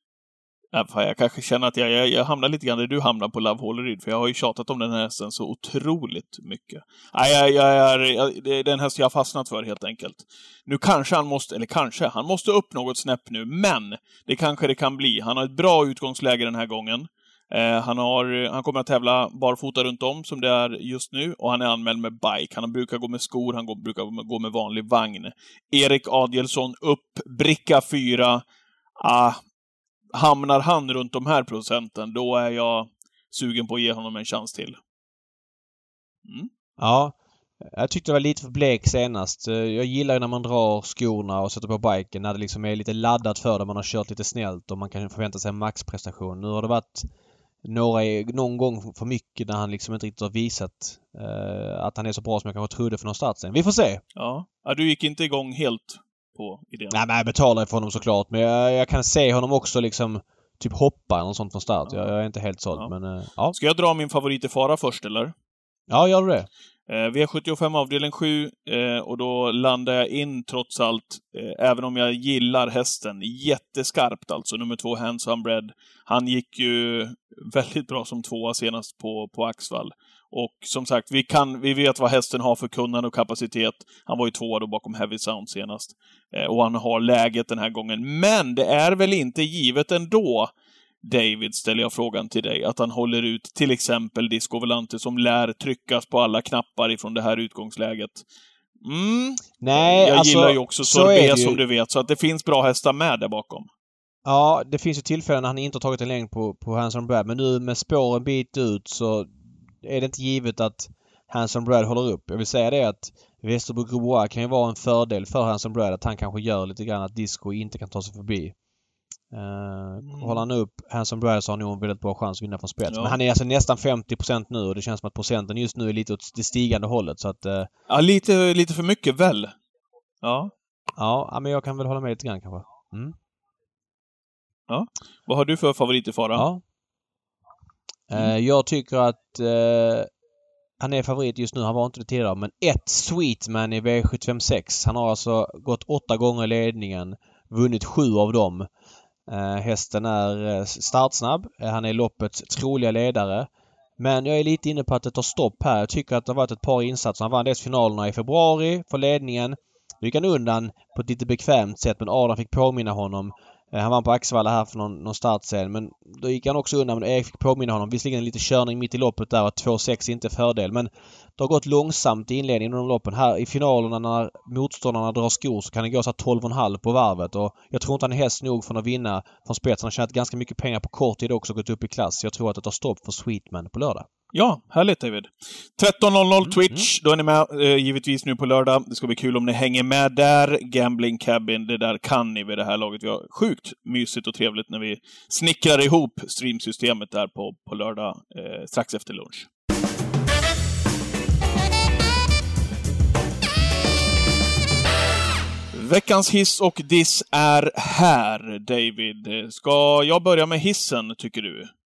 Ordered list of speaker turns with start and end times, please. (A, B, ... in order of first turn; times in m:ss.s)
0:00.7-0:28.4 A
0:29.0-0:29.4 A
0:30.1-0:34.8 A
0:36.2-0:36.5 A
0:36.8-0:47.1 B
0:47.6-0:54.0 B
0:54.2-0:57.0 A
0:56.9-1:03.6 B
1:01.9-1:02.1 A
1:03.5-1:05.3 A
1:05.9-1:06.5 B
1:06.9-1:30.5 A
1:31.0-1:38.2 A
1:38.8-1:43.7 A
1:39.6-1:41.6 B
1:44.2-1:49.3 B
1:49.8-1:58.6 B
1:59.3-2:07.7 B
2:00.0-2:00.4 A
2:02.9-2:03.2 A
2:07.9-2:09.6 A
2:10.2-2:10.5 A
2:11.0-2:13.2 B
2:14.7-2:16.4 A
2:16.4-2:16.6 B
2:18.1-2:20.1 B
2:20.8-2:28.7 B
2:29.3-3:04.1 B
3:04.3-3:19.5 A
3:06.5-3:06.9 B
3:25.7-3:31.7 A